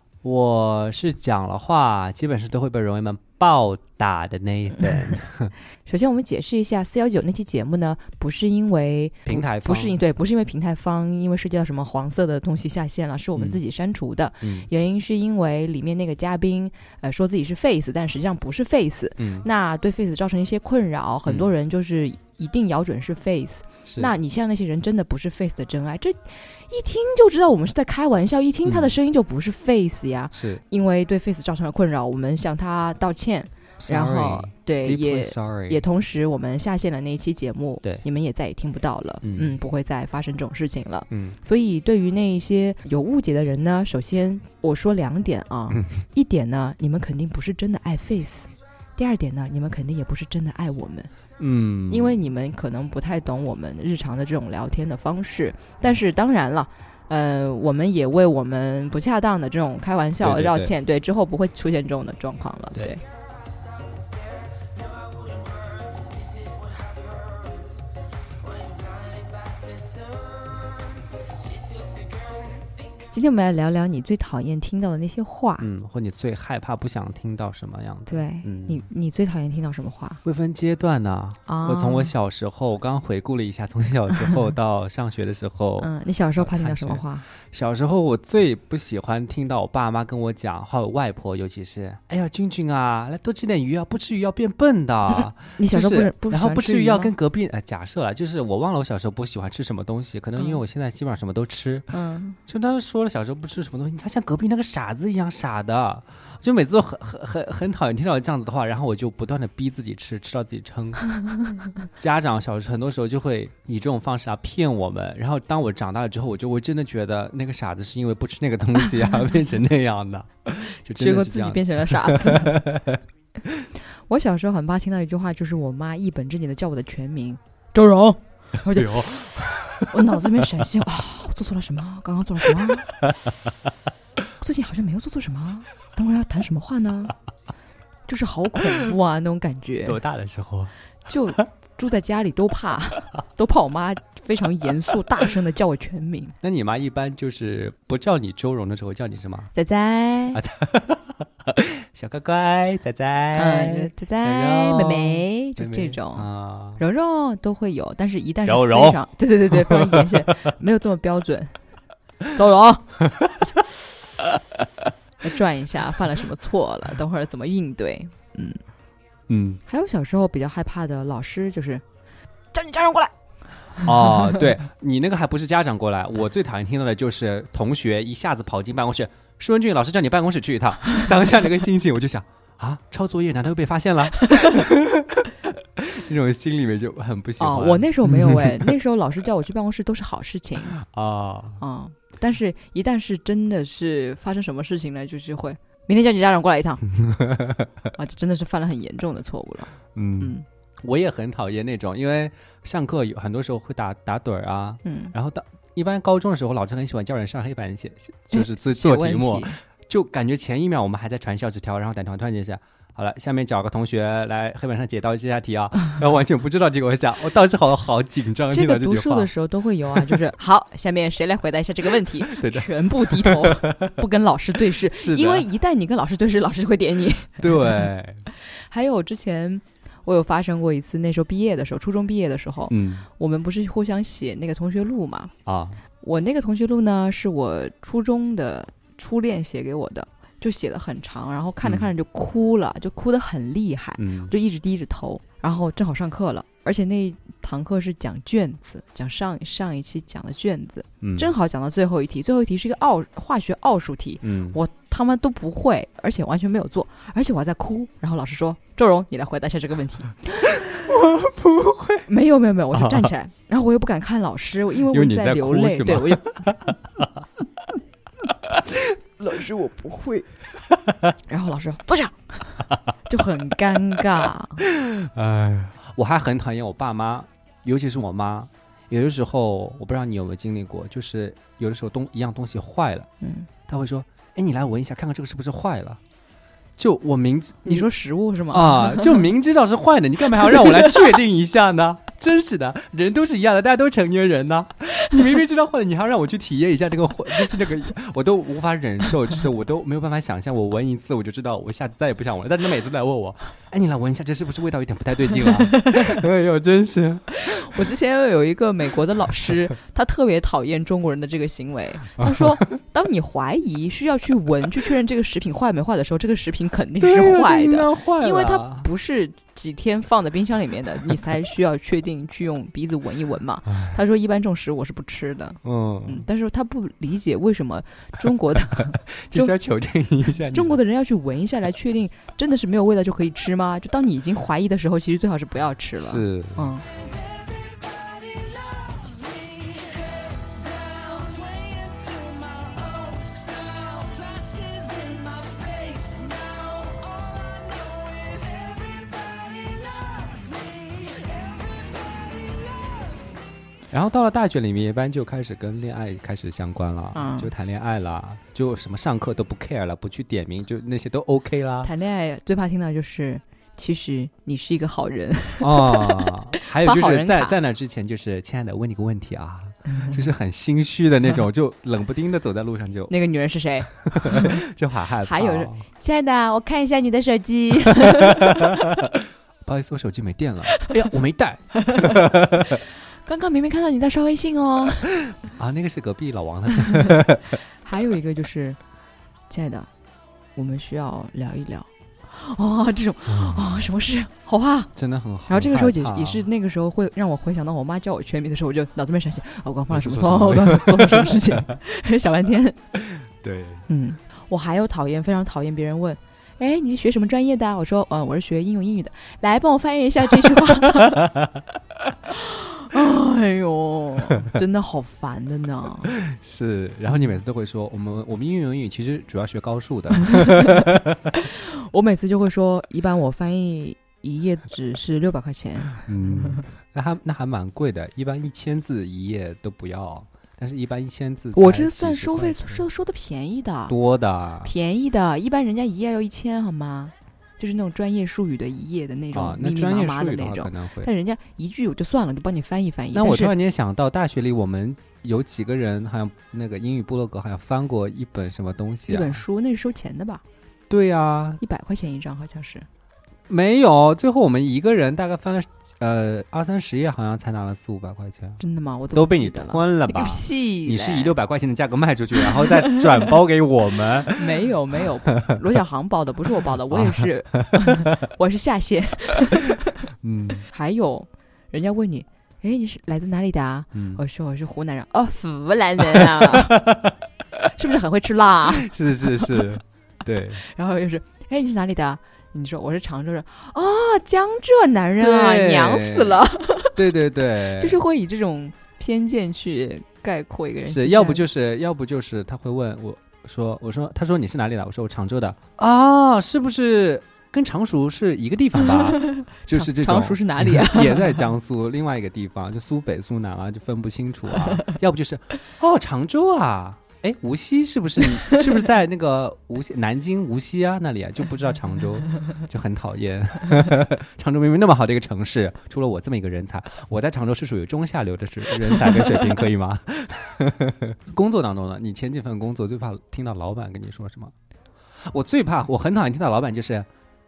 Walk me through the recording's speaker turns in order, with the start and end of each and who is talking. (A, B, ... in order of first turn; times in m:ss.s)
0:00.2-0:05.5 A
0:05.8-0:51.1 B
0:09.2-0:10.0 A
0:13.4-0:13.6 A
0:14.4-0:14.7 A
0:19.2-0:19.5 A
0:23.8-0:24.1 A
0:28.6-0:28.9 A
0:30.3-0:30.6 A
0:33.8-0:35.8 A
0:39.2-0:39.6 A
0:41.1-0:41.4 A
0:45.7-0:46.0 A
0:51.4-0:52.2 A
0:51.9-1:03.0 B
1:00.2-1:00.7 A
1:13.1-1:15.6 B
1:15.6-1:18.9 A
1:18.1-1:20.2 B
1:20.2-1:41.9 A
1:21.5-1:22.1 B
1:25.8-1:27.2 B
1:35.1-1:37.1 B
1:41.9-1:42.4 B
1:42.5-1:51.0 A
1:52.0-2:03.6 A
2:00.9-2:02.6 B
2:04.1-2:09.3 B
2:08.7-2:10.2 A
2:09.9-2:13.0 B
2:14.4-2:17.1 B
2:18.1-2:20.0 B
2:19.8-2:20.7 A
2:21.0-2:26.3 B
2:26.4-2:29.5 A
2:29.5-2:30.4 B
2:30.3-2:36.8 A
2:33.3-2:36.2 B
2:36.8-2:41.5 B
2:38.4-2:39.0 A
2:39.5-2:40.1 A
2:42.3-2:43.0 B
2:43.0-2:43.5 A
2:44.2-2:44.9 A
2:45.2-2:48.6 B
2:49.3-2:49.6 A
2:49.7-2:51.8 B
2:52.5-2:53.1 B
2:53.8-2:54.5 B
2:53.8-3:08.7 A
3:07.4-3:10.7 B
3:10.7-3:11.6 A
3:11.6-3:16.9 B
3:17.0-3:17.7 A
3:17.9-3:20.4 B
3:19.9-3:39.3 A
3:24.8-3:25.1 B
3:28.3-3:29.6 B
3:38.5-3:55.3 B
3:39.9-3:40.2 A
3:42.2-3:44.0 A
3:44.7-3:45.5 A
3:47.4-3:48.2 A
3:52.7-3:53.1 A
3:55.4-3:55.8 A
3:56.0-4:20.6 B
4:01.6-4:01.9 A
4:04.0-4:04.3 A
4:11.0-4:11.3 A
4:14.2-4:14.6 A
4:21.0-4:22.0 A
4:22.0-4:26.3 B
4:22.7-4:23.1 A
4:24.8-4:27.1 A
4:28.4-4:28.8 A
4:29.2-4:30.2 B
4:30.7-4:31.0 A
4:31.3-4:34.6 B
4:34.6-4:43.1 A
4:43.2-4:43.5 B
4:43.7-4:46.0 A
4:46.8-4:47.9 A
4:47.6-4:49.2 B
4:48.5-5:07.8 A
4:50.5-4:50.9 B
5:05.7-5:06.1 B
5:07.3-5:29.5 B
5:17.0-5:18.8 A
5:25.6-5:26.3 A
5:29.2-5:30.8 A
5:30.3-5:36.8 B
5:36.0-5:36.7 A
5:41.2-5:42.3 B
5:44.7-5:45.3 B
5:53.9-6:01.9 A
5:57.1-5:57.5 B
6:01.8-6:07.6 B
6:05.6-6:13.1 A
6:13.1-6:14.6 B
6:14.0-6:15.8 A
6:15.2-6:18.9 B
6:18.4-6:22.8 A
6:21.8-6:22.2 B
6:23.2-6:25.2 B
6:25.4-6:27.6 A
6:26.8-6:27.1 B
6:27.8-6:28.8 B
6:29.5-6:29.9 B
6:30.6-6:34.9 B
6:33.2-6:33.9 A
6:35.0-6:36.4 A
6:35.5-6:42.8 B
6:39.9-6:41.4 A
6:43.0-6:43.9 A
6:43.9-6:51.2 B
6:51.2-6:51.6 A
6:52.3-6:56.1 B
6:56.1-7:01.0 A
7:01.3-7:06.1 B
7:06.0-7:12.8 A
7:11.5-7:13.9 B
7:13.9-7:14.7 A
7:14.6-7:23.5 B
7:19.3-7:21.1 A
7:23.1-7:29.4 A
7:29.1-7:30.4 B
7:30.9-7:31.6 A
7:31.6-7:32.9 B
7:33.5-7:38.6 A
7:38.6-7:41.3 B
7:39.1-7:44.5 A
7:42.4-7:43.0 B
7:44.4-7:50.0 B
7:46.9-7:47.8 A
7:50.2-7:50.7 A
7:50.7-7:56.8 B
7:53.9-7:54.2 A
7:56.1-7:57.2 A
7:57.7-7:59.7 B
7:58.8-8:00.6 A
8:00.6-8:07.0 B
8:05.2-8:08.0 A
8:07.8-8:11.4 B
8:10.9-8:44.5 A
8:18.8-8:21.4 B
8:45.3-8:47.1 A